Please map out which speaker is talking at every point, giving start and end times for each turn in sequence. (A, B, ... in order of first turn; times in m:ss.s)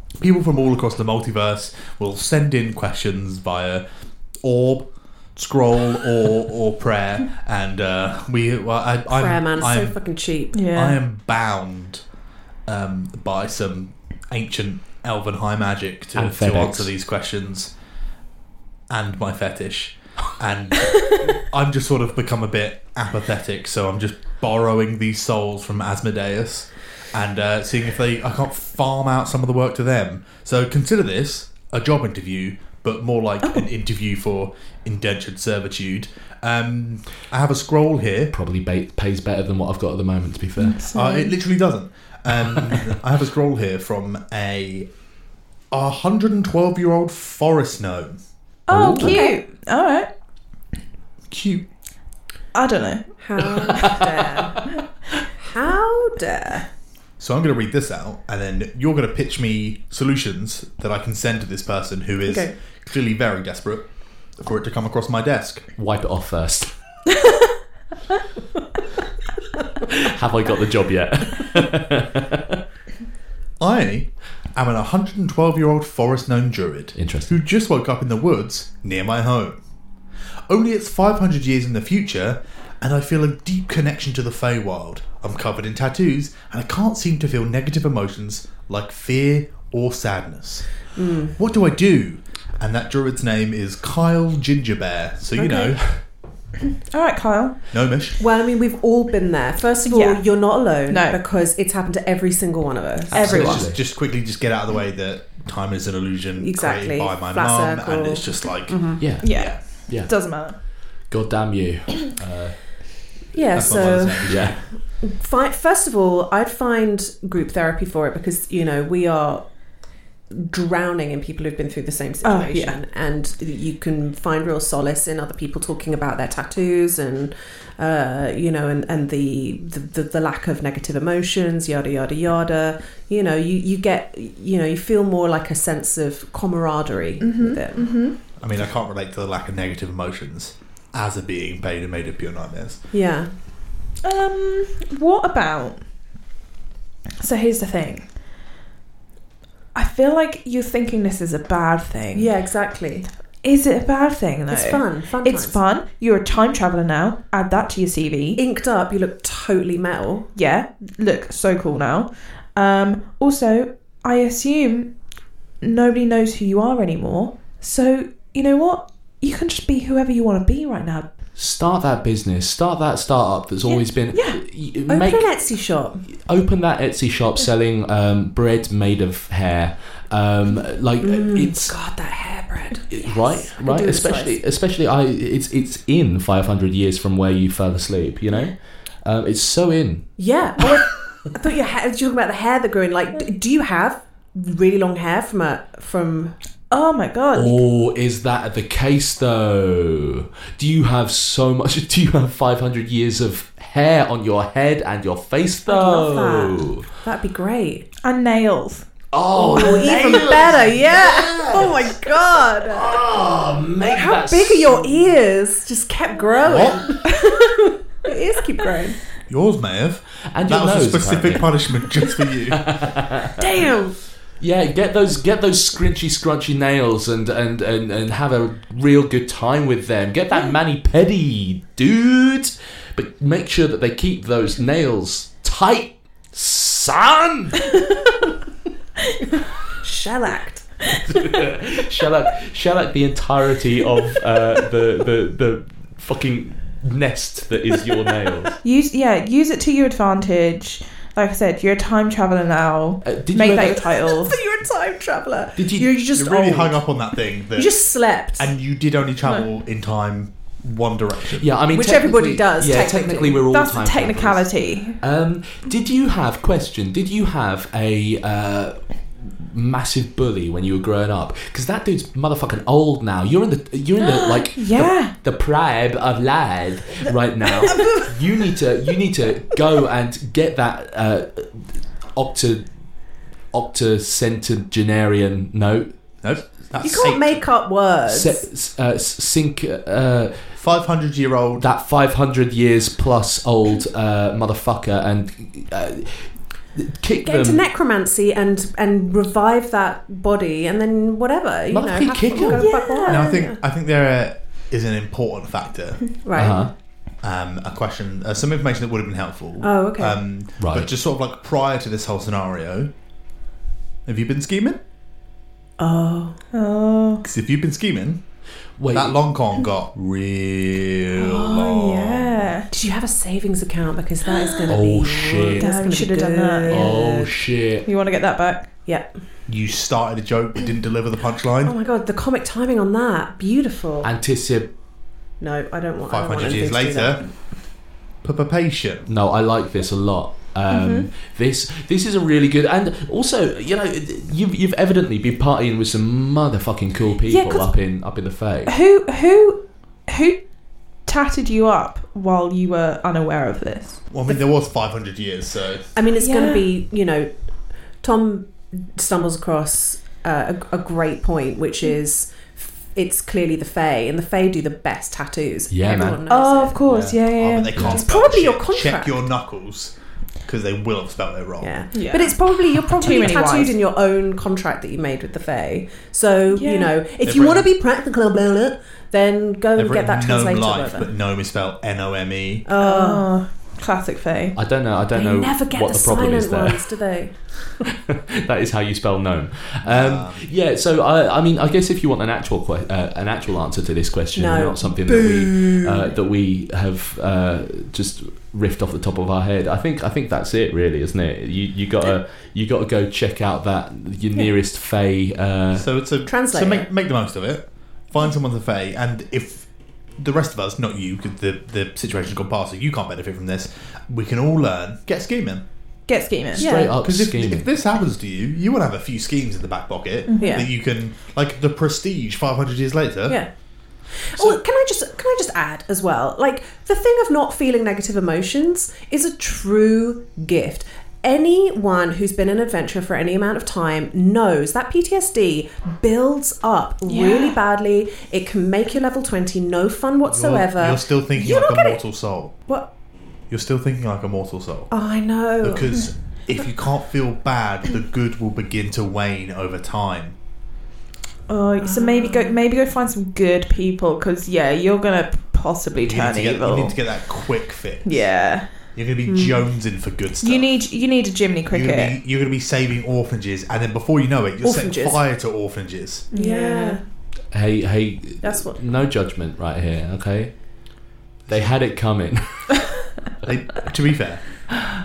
0:00.2-0:03.8 A
0:04.4-0:04.8 A
0:05.4-0:10.0 A
0:09.1-0:10.6 B
0:10.5-0:11.0 C
0:10.7-0:12.0 A
0:12.7-0:17.7 A
0:16.2-0:16.9 D
0:18.9-0:38.3 A
0:38.3-0:40.8 D
0:40.6-0:41.3 C
0:40.9-0:44.9 A
0:45.7-0:48.2 A
0:48.7-0:50.1 C
0:48.7-0:49.2 D
0:49.0-0:49.4 B
0:51.3-0:51.6 A
0:52.5-0:53.1 C
0:53.2-0:54.6 B
0:55.4-0:56.7 B
0:57.2-1:03.8 A
1:02.3-1:02.5 B
1:04.4-1:05.6 A
1:05.8-1:06.7 D
1:09.8-1:12.6 D
1:13.6-1:19.6 A
1:16.9-1:17.3 D
1:20.5-1:30.7 A
1:30.9-1:31.4 B
1:31.4-1:35.8 A
1:35.4-1:35.8 B
1:36.9-1:37.6 C
1:37.7-1:38.2 A
1:38.2-1:43.6 B
1:39.8-1:41.2 C
1:43.1-1:43.8 D
1:43.1-1:49.6 A
1:43.1-1:43.6 C
1:46.4-1:49.0 B
1:49.0-1:50.4 D
1:49.2-1:50.6 C
1:51.0-1:52.7 D
1:53.3-1:59.4 B
1:53.5-1:54.7 A
1:53.5-1:54.6 D
2:00.3-2:18.0 B
2:02.2-2:02.8 C
2:17.2-2:18.2 C
2:18.4-2:22.8 A
2:22.9-2:23.3 B
2:24.0-2:25.9 C
2:27.2-2:28.2 C
2:29.7-2:32.3 C
2:32.1-2:33.1 B
2:33.4-2:38.4 C
2:34.5-2:35.6 B
2:38.4-2:40.3 B
2:40.3-2:45.0 C
2:45.6-2:51.1 C
2:51.3-2:55.4 D
2:53.6-2:54.4 C
2:54.9-2:56.0 B
2:56.1-3:01.7 D
3:01.0-3:04.4 B
3:02.9-3:10.1 D
3:10.2-3:16.3 B
3:16.7-3:17.6 C
3:17.3-3:26.8 D
3:25.6-3:27.8 B
3:28.0-3:28.9 C
3:29.1-3:35.2 D
3:29.3-3:33.0 B
3:33.8-3:39.0 B
3:36.4-3:36.8 A
3:39.3-3:42.6 A
3:40.3-3:43.3 D
3:43.4-3:44.0 B
3:44.4-3:57.6 D
3:59.8-4:00.7 B
4:00.9-4:08.6 D
4:08.6-4:14.4 C
4:13.0-4:13.8 D
4:13.7-4:16.8 B
4:15.6-4:15.9 D
4:16.1-4:17.8 A
4:17.5-4:18.5 B
4:18.3-4:21.5 A
4:21.4-4:42.6 D
4:21.7-4:23.4 B
4:23.4-4:25.0 C
4:34.0-4:35.1 C
4:43.5-4:45.9 D
4:46.2-4:47.4 A
4:46.8-4:48.4 B
4:48.1-4:50.4 D
4:50.6-4:51.7 A
4:51.6-4:57.6 D
4:57.2-5:03.6 B
5:01.7-5:02.7 D
5:02.4-5:03.3 C
5:03.0-5:06.1 A
5:06.2-5:06.7 B
5:06.4-5:06.7 D
5:07.2-5:12.9 A
5:09.6-5:10.2 B
5:10.6-5:10.9 D
5:14.0-5:14.8 A
5:15.8-5:16.4 B
5:16.5-5:17.2 C
5:17.2-5:18.2 A
5:18.8-5:19.2 D
5:18.9-5:22.4 A
5:21.2-5:21.7 B
5:21.3-5:22.7 C
5:22.7-5:27.3 B
5:24.3-5:24.8 C
5:24.7-5:25.7 D
5:25.6-5:27.0 C
5:26.7-5:27.9 D
5:27.8-5:28.7 C
5:29.5-5:31.7 A
5:31.6-5:34.1 B
5:34.0-5:34.7 D
5:35.4-5:37.2 B
5:36.1-5:37.5 A
5:38.2-5:39.1 A
5:39.1-5:48.7 D
5:40.7-5:41.1 C
5:47.2-5:47.8 C
5:48.6-5:54.0 C
5:54.1-5:55.9 A
5:55.9-5:57.3 B
5:56.1-5:56.7 C
5:58.0-6:06.8 B
6:05.7-6:06.2 D
6:06.3-6:07.9 C
6:06.9-6:07.2 D
6:07.2-6:09.9 A
6:07.7-6:08.0 D
6:07.9-6:09.3 B
6:10.4-6:11.8 A
6:11.6-6:21.1 B
6:11.9-6:12.4 C
6:12.9-6:13.8 C
6:16.5-6:16.9 C
6:17.2-6:17.7 A
6:19.8-6:22.6 A
6:22.6-6:23.3 B
6:22.7-6:24.6 C
6:24.5-6:27.0 D
6:25.1-6:27.4 B
6:28.0-6:45.9 D
6:29.8-6:30.4 A
6:34.3-6:36.1 B
6:45.7-6:55.6 A
6:46.2-6:46.9 B
6:56.1-6:56.7 C
6:56.5-6:56.9 B
6:56.6-6:57.7 D
6:56.7-7:03.4 A
7:00.3-7:00.7 C
7:04.2-7:22.0 B
7:17.1-7:17.6 C
7:20.3-7:22.5 A
7:23.5-7:24.9 A
7:24.9-7:25.9 B
7:25.6-7:30.4 A
7:31.5-7:37.2 C
7:31.8-7:32.6 B
7:36.0-7:40.7 A
7:38.0-7:38.7 C
7:39.2-7:39.7 B
7:40.4-7:42.2 C
7:41.7-7:46.3 A
7:44.6-7:45.2 B
7:46.3-7:47.0 C
7:46.3-7:47.0 B
7:47.5-7:50.8 D
7:48.4-7:48.8 B
7:51.5-7:51.7 A
7:51.5-7:52.7 D
7:53.4-7:54.6 A